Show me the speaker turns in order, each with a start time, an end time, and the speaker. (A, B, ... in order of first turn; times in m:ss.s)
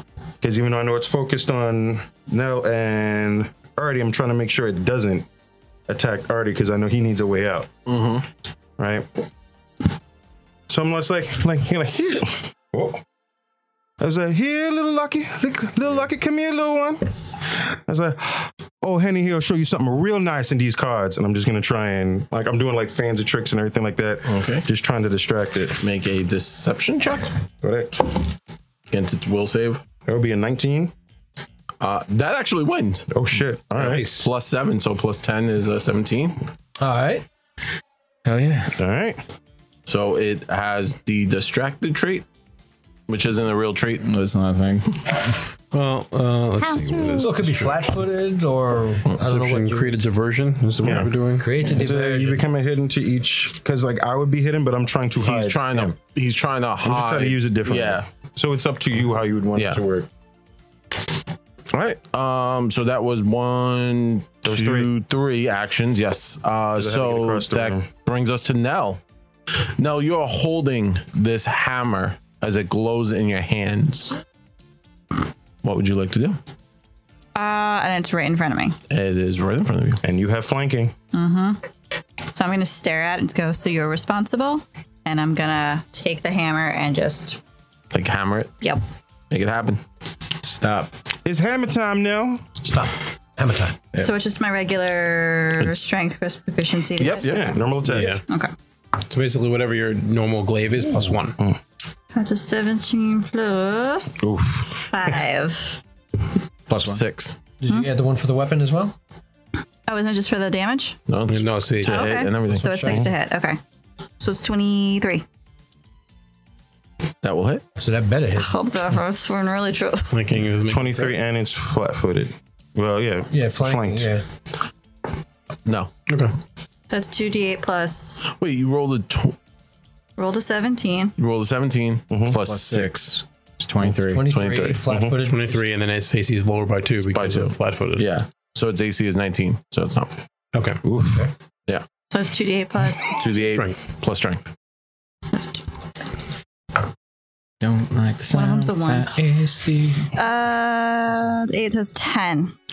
0:00.4-0:05.3 A
0:05.9-0:07.7 A
0:07.8-0:08.2 B
0:08.8-0:09.1 A
0:10.7-0:13.0 A
0:14.0-0:17.1 A
0:17.7-0:25.8 A
0:24.2-0:24.6 B
0:25.8-0:27.3 B
0:27.6-0:28.1 A
0:28.9-0:29.8 B
0:30.0-0:30.9 A
0:31.8-0:33.1 B
0:33.1-0:34.1 A
0:33.7-0:36.4 B
0:33.8-0:34.3 C
0:36.8-0:37.2 D
0:38.2-0:38.8 E
0:38.8-0:39.2 A
0:39.9-0:42.2 B
0:43.1-0:44.0 B
0:44.0-0:45.1 E
0:45.7-0:47.7 C
0:46.6-0:47.3 F
0:47.2-0:50.0 D
0:49.1-0:51.5 C
0:50.8-0:51.1 A
0:51.4-0:52.4 D
0:51.6-0:55.9 A
0:55.2-0:58.0 B
0:56.8-1:00.1 A
0:59.5-0:59.8 B
1:01.7-1:09.0 B
1:04.4-1:04.9 A
1:06.8-1:07.9 A
1:09.8-1:14.2 B
1:15.6-1:16.4 B
1:17.3-1:18.8 F
1:18.9-1:20.0 B
1:20.0-1:20.9 A
1:21.1-1:21.6 F
1:22.3-1:27.4 F
1:27.9-1:28.5 B
1:29.3-1:29.8 B
1:30.4-1:30.9 E
1:31.2-1:32.4 A
1:32.6-1:33.8 D
1:34.0-1:37.3 F
1:37.0-1:37.6 B
1:37.1-1:38.2 A
1:37.9-1:38.2 C
1:38.0-1:38.5 F
1:39.0-1:41.4 C
1:42.1-1:44.3 F
1:44.2-1:45.2 A
1:44.8-1:45.8 F
1:46.7-1:47.0 E
1:46.7-1:47.4 B
1:47.6-1:49.0 D
1:49.9-1:51.0 F
1:51.1-1:53.0 B
1:51.3-1:52.1 C
1:51.8-1:53.6 F
1:52.6-1:53.1 D
1:54.2-1:55.2 F
1:57.2-1:57.6 B
1:57.8-1:58.5 D
1:58.4-2:00.1 F
2:00.1-2:01.1 C
2:00.6-2:04.1 A
2:03.3-2:04.2 D
2:05.6-2:05.9 B
2:06.1-2:06.3 C
2:06.9-2:08.2 F
2:08.2-2:09.4 B
2:10.2-2:11.1 F
2:11.2-2:13.2 B
2:12.1-2:12.4 A
2:12.4-2:14.2 E
2:13.8-2:14.8 B
2:14.0-2:15.6 D
2:14.8-2:15.2 A
2:15.2-2:18.1 C
2:17.1-2:20.2 B
2:20.5-2:20.8 C
2:20.8-2:21.3 A
2:22.1-2:23.2 F
2:23.2-2:24.5 B
2:23.3-2:23.8 C
2:25.3-2:25.6 F
2:27.6-2:30.1 E
2:28.3-2:29.2 F
2:30.1-2:32.5 F